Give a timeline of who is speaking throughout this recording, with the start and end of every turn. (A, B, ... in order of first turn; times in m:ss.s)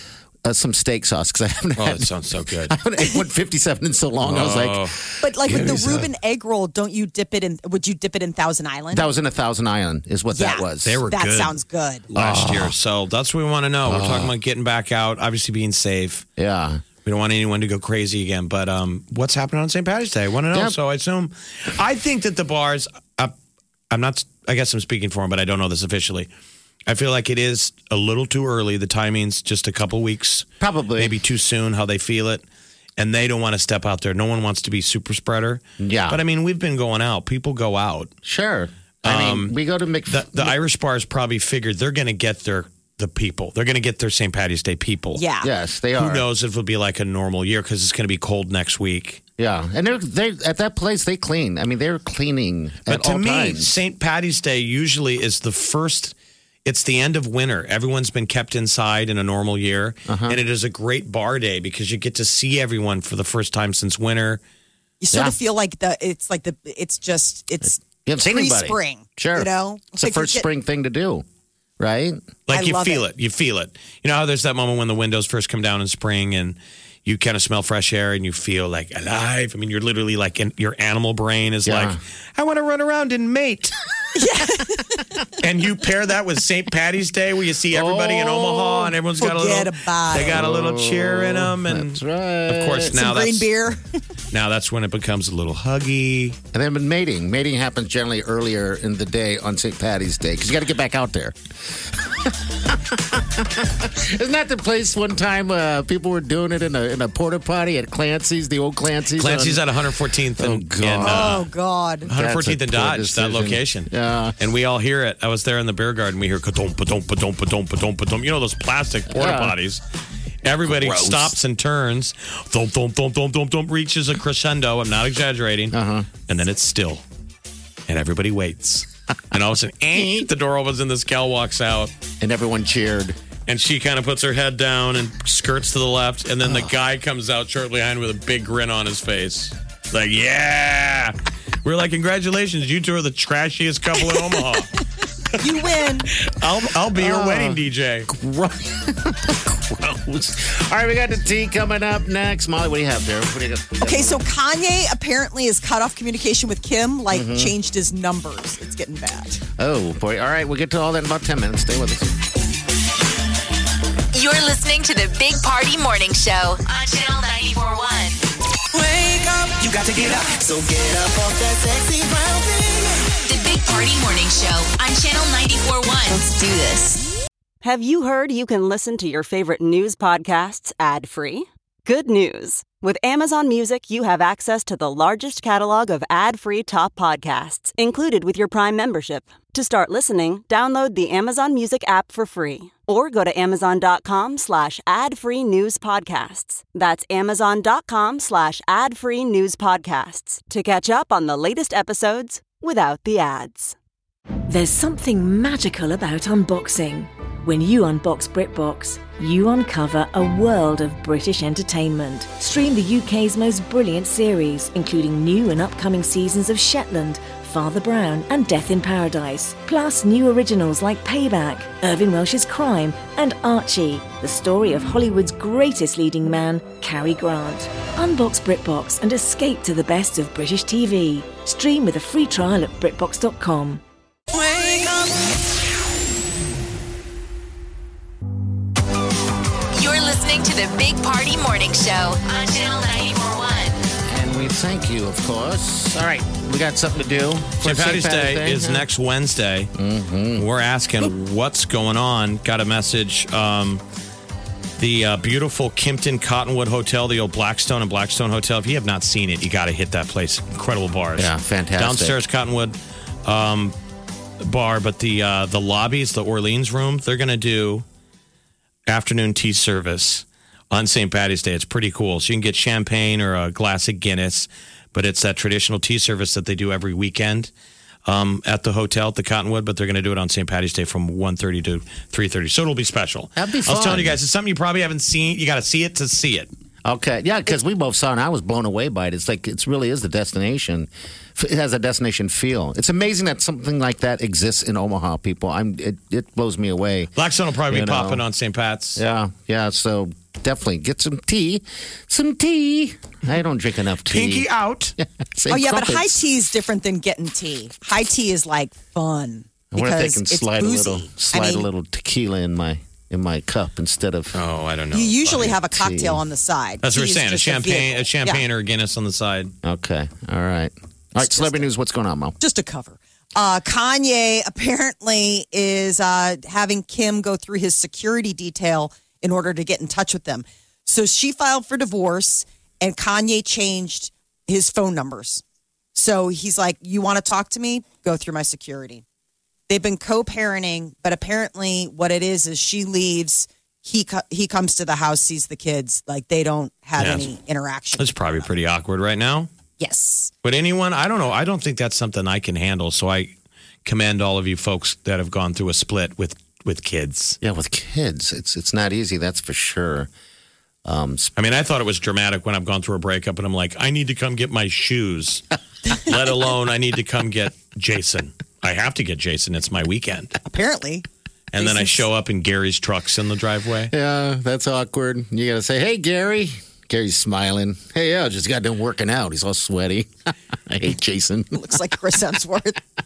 0:00.4-0:06.1 A
0:01.8-0:02.7 B
0:04.2-0:05.0 B
0:05.2-0:09.1 C
0:08.9-0:11.0 A
0:10.3-0:12.0 C
0:10.8-0:11.6 B
0:12.1-0:16.2 B
0:12.1-0:12.7 A
0:13.8-0:14.3 A
0:16.4-0:16.8 A
0:17.0-0:23.3 B
0:20.5-0:20.8 A
0:23.9-0:26.3 B
0:26.9-0:32.4 B
0:30.6-0:31.2 A
0:33.0-0:38.1 B
0:35.8-0:36.2 A
0:38.2-0:40.6 A
0:39.0-0:39.5 B
0:40.1-0:45.2 B
0:45.2-0:45.5 C
0:45.4-0:46.2 A
0:46.0-0:49.2 B
0:49.4-0:53.7 A
0:52.8-1:04.4 B
1:00.1-1:00.4 A
1:05.0-1:10.4 C
1:07.8-1:11.2 A
1:11.8-1:12.2 A
1:12.5-1:23.7 B
1:12.5-1:13.0 C
1:21.6-1:22.0 A
1:24.1-1:25.0 C
1:25.4-1:33.5 B
1:27.7-1:28.9 A
1:29.2-1:30.4 C
1:30.1-1:33.0 A
1:32.9-1:33.9 C
1:34.3-1:36.4 B
1:36.5-1:49.7 A
1:49.1-1:51.4 B
1:50.4-1:51.4 A
1:51.0-1:52.1 C
1:52.1-1:59.8 B
1:52.1-1:54.4 A
1:59.1-1:59.5 A
2:00.4-2:07.0 B
2:00.7-2:01.3 A
2:05.7-2:06.1 A
2:07.9-2:11.9 B
2:10.0-2:10.2 A
2:12.2-2:13.2 A
2:13.5-2:24.8 B
2:25.4-2:26.1 C
2:26.2-2:28.1 B
2:26.9-2:34.2 A
2:33.8-2:39.4 C
2:37.1-2:37.5 A
2:39.6-2:42.1 A
2:44.1-2:48.2 D
2:48.7-2:53.0 E
2:53.2-2:57.0 D
2:57.6-3:23.8 F
3:24.5-3:53.8 G
3:54.3-3:55.2 E
3:59.7-4:03.8 D
4:04.1-4:08.9 A
4:07.6-4:09.7 B
4:09.8-4:10.5 A
4:10.4-4:13.8 B
4:14.8-4:23.7 B
4:21.2-4:22.2 A
4:24.4-4:27.8 B
4:28.9-4:37.5 B
4:38.0-4:46.5 B
4:43.4-4:44.2 A
4:46.8-4:57.1 A
4:57.2-4:59.0 B
4:57.7-4:58.2 A
4:59.0-5:04.4 A
5:04.0-5:05.0 B
5:05.0-5:06.2 A
5:05.5-5:11.7 C
5:09.7-5:14.4 A
5:14.3-5:15.6 B
5:14.9-5:18.4 C
5:15.6-5:16.2 A
5:16.8-5:19.5 B
5:19.6-5:22.4 A
5:21.2-5:21.7 C
5:22.4-5:35.4 C
5:35.9-5:39.0 C
5:39.7-5:48.1 C
5:47.0-5:47.3 B
5:48.0-5:49.5 B
5:49.8-5:50.3 C
5:50.4-5:53.3 B
5:53.8-5:57.4 B
5:57.4-6:00.1 A
6:00.8-6:01.3 A
6:01.4-6:10.3 B
6:10.4-6:11.0 C
6:11.5-6:13.9 B
6:11.6-6:12.0 C
6:13.9-6:21.9 A
6:21.5-6:22.8 C